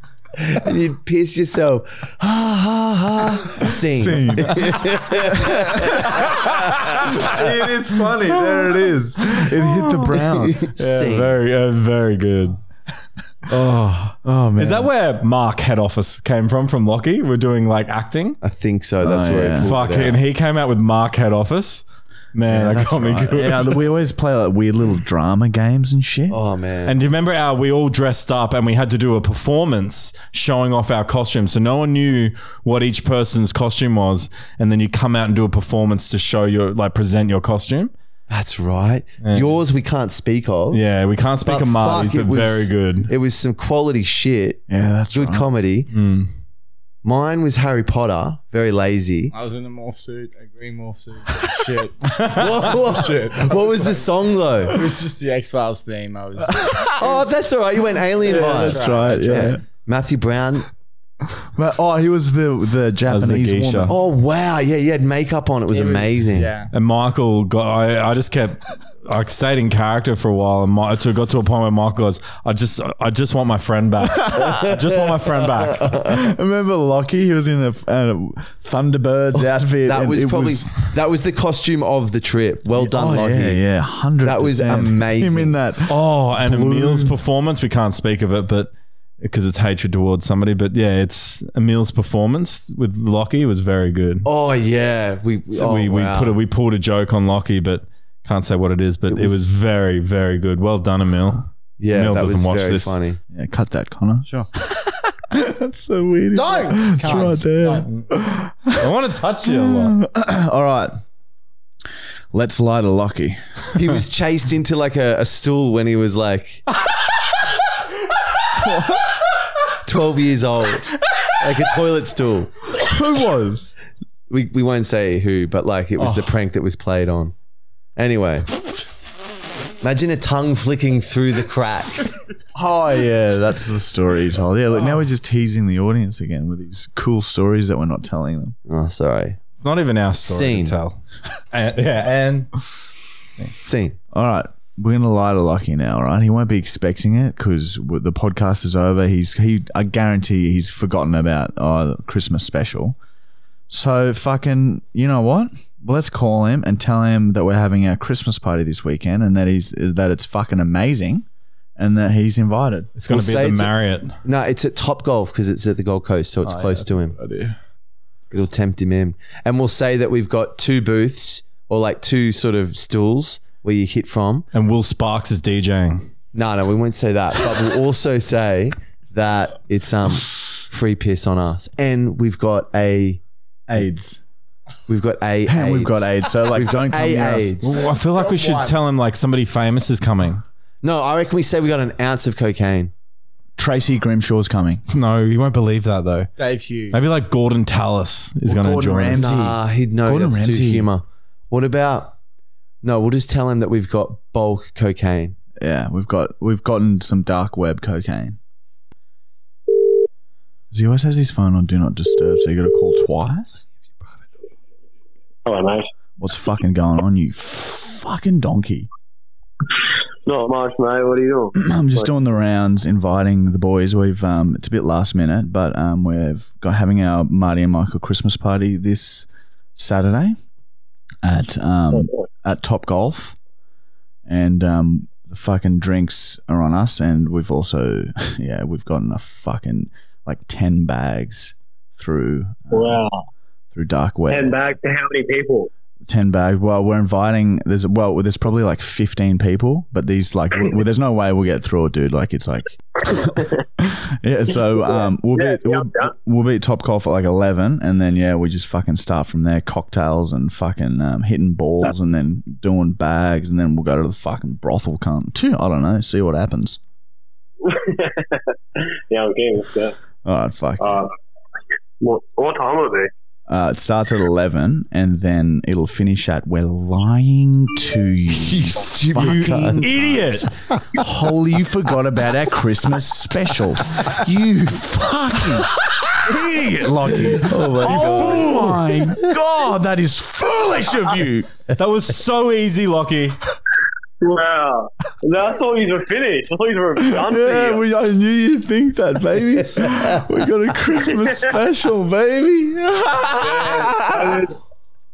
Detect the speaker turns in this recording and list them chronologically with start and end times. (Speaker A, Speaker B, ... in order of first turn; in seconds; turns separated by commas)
Speaker A: 0.3-7.4, Speaker B: 3.6-10.6, Speaker C: 6.8-7.2, Speaker C: 9.4-10.1, Speaker A: 10.4-11.4, Speaker C: 10.8-12.6, Speaker C: 13.5-18.4, Speaker B: 14.2-14.9, Speaker A: 18.4-20.2, Speaker B: 19.0-19.7, Speaker C: 19.6-23.9, Speaker B: 22.5-26.4, Speaker A: 26.3-26.9, Speaker C: 26.9-37.9, Speaker A: 38.3-40.8, Speaker C: 39.2-39.6, Speaker C: 40.7-43.1, Speaker A: 41.4-44.6, Speaker B: 44.7-45.5, Speaker A: 45.1-45.9, Speaker C: 45.9-46.3, Speaker A: 47.0-49.3, Speaker D: 49.3-57.3, Speaker A: 52.3-54.8, Speaker B: 56.5-56.9, Speaker A: 57.0-60.7, Speaker D: 58.2-59.6, Speaker B: 58.2-59.6, Speaker B: 61.5-64.0, Speaker C: 63.1-63.9, Speaker A: 63.9-66.5, Speaker D: 65.7-66.7, Speaker C: 66.7-76.0, Speaker A: 74.3-76.2, Speaker B: 76.1-80.7, Speaker A: 79.4-83.6, Speaker B: 82.7-87.2, Speaker A: 84.2-85.6, Speaker C: 85.9-94.3, Speaker A: 94.2-96.4, Speaker C: 95.5-103.0, Speaker A: 99.1-99.5, Speaker A: 101.8-103.2, Speaker B: 103.3-108.9, Speaker D: 106.3-107.9, Speaker C: 107.0-108.1, Speaker C: 108.7-110.0, Speaker B: 109.4-111.0, Speaker B: 112.3-113.4, Speaker A: 113.7-116.6, Speaker B: 118.6-119.0, Speaker A: 119.8-122.5, Speaker B: 122.7-123.7, Speaker A: 124.3-127.3, Speaker A: 128.0-128.5, Speaker A: 129.8-132.1, Speaker B: 132.6-138.6, Speaker A: 138.7-139.4, Speaker C: 139.6-141.0, Speaker A: 140.2-140.8, Speaker C: 141.5-142.8, Speaker A: 143.6-144.0, Speaker B: 144.1-152.9, Speaker B: 153.7-161.3, Speaker B: 161.8-162.9, Speaker C: 162.9-164.2, Speaker A: 163.1-167.2, Speaker C: 166.5-167.5, Speaker A: 168.3-174.5, Speaker C: 174.5-176.1, Speaker A: 176.3-183.2, Speaker B: 183.7-184.2, Speaker A: 184.9-187.7, Speaker B: 185.4-187.6, Speaker C: 187.6-190.4, Speaker D: 187.7-188.8, Speaker A: 190.8-192.9, Speaker B: 193.6-194.8, Speaker C: 194.9-196.3, Speaker D: 196.4-197.0, Speaker C: 196.9-199.3, Speaker B: 198.4-200.9, Speaker A: 199.2-202.1, Speaker A: 202.8-205.4, Speaker B: 205.6-208.4, Speaker B: 210.7-213.6, Speaker E: 215.4-215.9, Speaker B: 216.2-218.9, Speaker E: 220.2-222.1, Speaker B: 221.6-230.4, Speaker B: 231.2-233.4, Speaker B: 234.3-243.0, Speaker E: 242.7-243.2, Speaker B: 243.7-244.7, Speaker E: 244.3-245.7, Speaker B: 246.1-266.8, Speaker E: 253.1-253.6, Speaker E: 254.8-256.1, Speaker E: 267.7-268.4, Speaker E: 269.1-269.9, Speaker B: 270.2-271.1, Speaker E: 270.8-271.1, Speaker E: 272.0-273.1, Speaker B: 273.5-291.5, Speaker A: 278.3-279.9, Speaker C: 279.8-280.5, Speaker A: 287.4-288.8, Speaker C: 287.9-288.3, Speaker C: 291.7-293.4, Speaker E: 294.2-297.9, Speaker B: 297.2-304.5, Speaker E: 301.1-301.5, Speaker E: 303.4-304.6